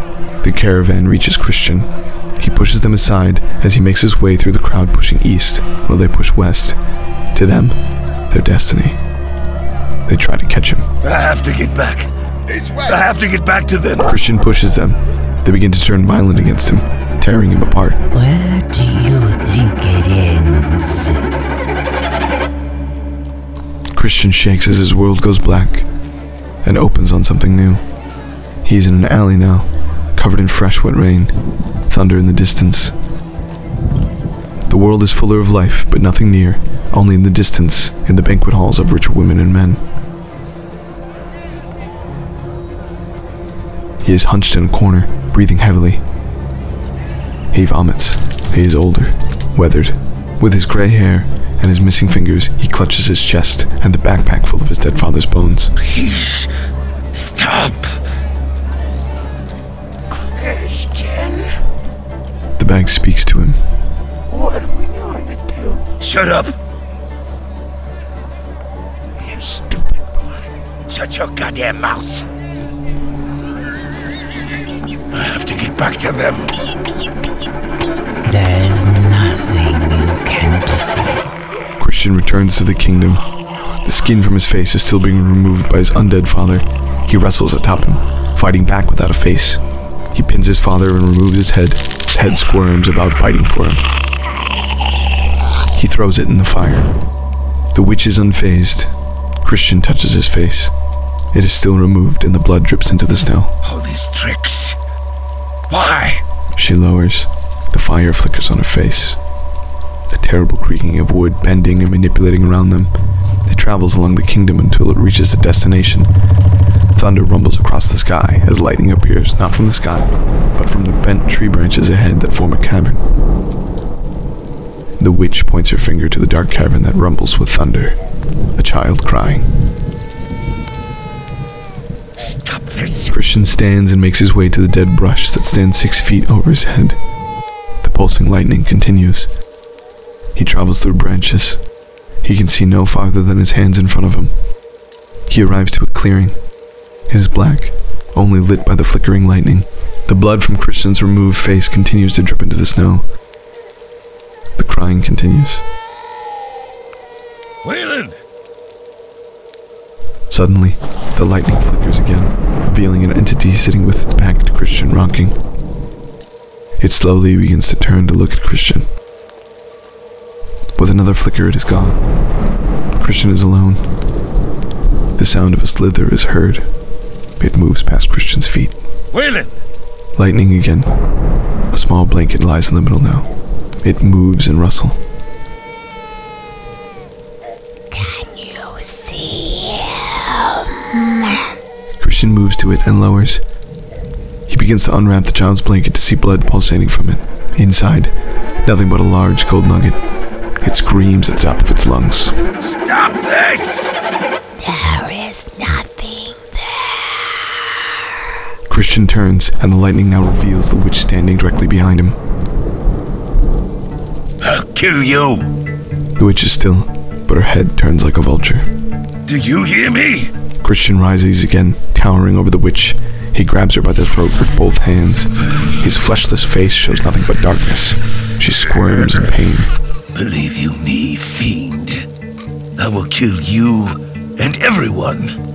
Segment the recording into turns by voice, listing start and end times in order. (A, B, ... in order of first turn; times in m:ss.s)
0:00.4-0:06.8 A
0:07.3-0:07.8 A
0:08.3-0:09.0 A
0:10.1-0:10.9 A
0:11.0-0:14.1 B
0:14.0-0:18.0 A
0:18.1-0:21.2 C
0:24.0-0:25.9 A
0:26.6-0:27.8 A
0:28.6-0:31.4 A
0:31.9-0:32.9 A
0:34.7-0:39.8 A
0:44.0-0:46.0 A
0:47.5-0:55.7 A
0:55.8-0:56.5 B
0:57.1-0:58.0 B
1:00.1-1:01.5 B
1:02.6-1:03.6 A
1:04.3-1:06.6 B
1:09.2-1:10.3 B
1:10.9-1:12.3 B
1:15.1-1:16.5 B
1:18.2-1:21.3 C
1:21.8-1:23.2 A
1:23.8-1:29.6 A
1:30.1-1:33.8 A
1:35.8-1:36.9 A
1:37.7-1:38.9 A
1:39.4-1:40.7 A
1:41.3-1:43.5 A
1:43.6-1:44.8 B
1:45.7-1:46.2 B
1:46.6-1:49.2 A
1:50.1-1:52.9 A
1:53.5-1:56.1 A
1:57.0-2:03.0 A
2:05.0-2:08.0 A
2:08.6-2:09.5 A
2:12.2-2:13.1 B
2:13.1-2:17.0 A
2:17.8-2:19.3 A
2:20.4-2:21.6 A
2:22.2-2:24.3 A
2:25.3-2:26.4 A
2:27.1-2:33.0 A
2:34.6-2:35.6 A
2:37.6-2:38.1 B
2:40.3-2:45.4 A
2:46.8-2:48.9 A
2:50.8-2:52.0 A
2:53.0-2:53.8 A
2:55.2-2:56.6 A
2:57.4-2:58.8 A
2:59.1-2:59.5 B
3:00.2-3:00.9 A
3:01.7-3:03.3 A
3:03.8-3:05.0 A
3:07.9-3:11.6 C
3:12.0-3:13.4 A
3:14.5-3:18.1 A
3:18.6-3:20.0 A
3:20.6-3:22.4 A
3:22.6-3:23.9 B
3:24.6-3:27.2 C
3:28.7-3:32.2 A
3:34.4-3:35.5 B
3:36.2-3:38.7 A
3:39.3-3:40.3 B
3:40.6-3:49.7 A
3:50.2-3:52.1 B
3:52.8-3:55.4 B